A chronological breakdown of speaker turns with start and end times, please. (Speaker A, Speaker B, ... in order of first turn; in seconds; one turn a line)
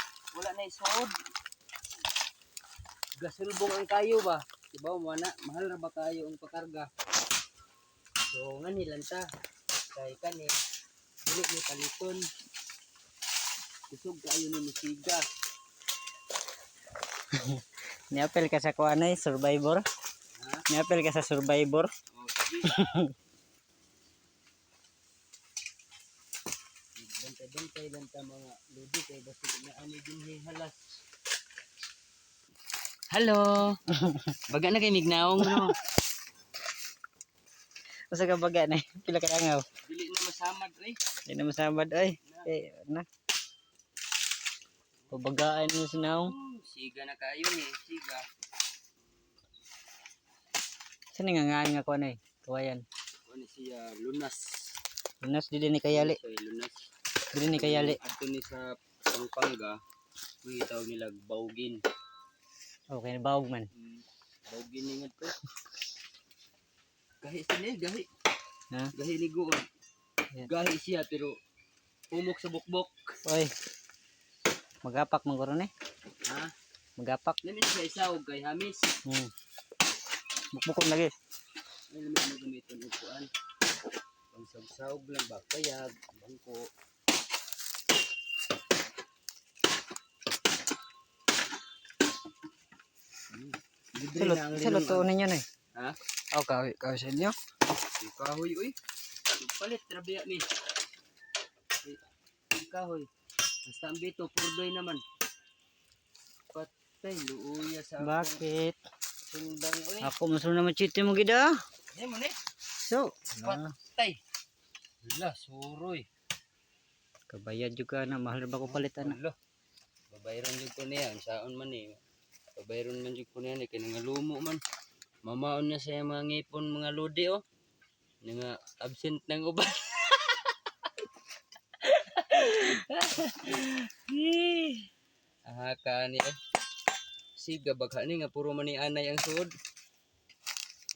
Speaker A: 0.3-1.1
Speaker A: 3.2-6.9
Speaker A: 8.3-9.2
Speaker A: 9.9-10.6
Speaker A: 11.2-12.2
Speaker A: 13.9-15.2
Speaker B: 17.3-19.8
Speaker A: 20.4-20.6
Speaker B: 20.7-21.9
Speaker A: 22.1-22.8
Speaker B: 22.6-23.1
Speaker A: 27.0-30.8
Speaker A: 33.1-33.8
Speaker B: 34.0-34.4
Speaker A: 34.5-35.8
Speaker B: 35.4-35.7
Speaker B: 38.1-39.6
Speaker A: 39.8-41.0
Speaker B: 41.3-43.1
Speaker A: 42.2-42.5
Speaker B: 45.1-46.3
Speaker A: 46.1-48.2
Speaker B: 51.1-52.8
Speaker A: 53.3-54.7
Speaker B: 55.2-56.2
Speaker A: 55.9-56.8
Speaker B: 57.3-58.0
Speaker A: 57.5-59.8
Speaker A: 60.4-61.8
Speaker B: 62.9-63.7
Speaker A: 63.7-65.4
Speaker A: 67.2-68.1
Speaker A: 68.9-69.7
Speaker A: 70.4-71.3
Speaker A: 72.1-72.9
Speaker B: 73.3-73.5
Speaker B: 74.8-75.7
Speaker A: 76.2-76.5
Speaker B: 77.0-77.4
Speaker A: 77.4-78.9
Speaker B: 79.1-79.3
Speaker B: 80.5-81.1
Speaker A: 81.9-83.3
Speaker A: 84.3-86.7
Speaker A: 93.3-95.0
Speaker B: 94.2-95.4
Speaker B: 96.3-97.3
Speaker A: 98.0-98.8
Speaker A: 99.4-100.5
Speaker A: 102.5-103.1
Speaker A: 103.7-105.0
Speaker A: 106.5-108.4
Speaker B: 108.0-108.8
Speaker A: 109.3-110.1
Speaker B: 110.0-111.5
Speaker A: 111.9-112.3
Speaker B: 112.8-113.7
Speaker A: 113.4-114.2
Speaker A: 115.0-116.1
Speaker B: 117.3-119.2
Speaker A: 118.6-119.3
Speaker A: 120.1-122.0
Speaker A: 122.6-124.6
Speaker A: 125.2-127.4
Speaker A: 128.2-130.5
Speaker A: 131.8-134.9
Speaker A: 135.5-136.3
Speaker A: 137.4-139.5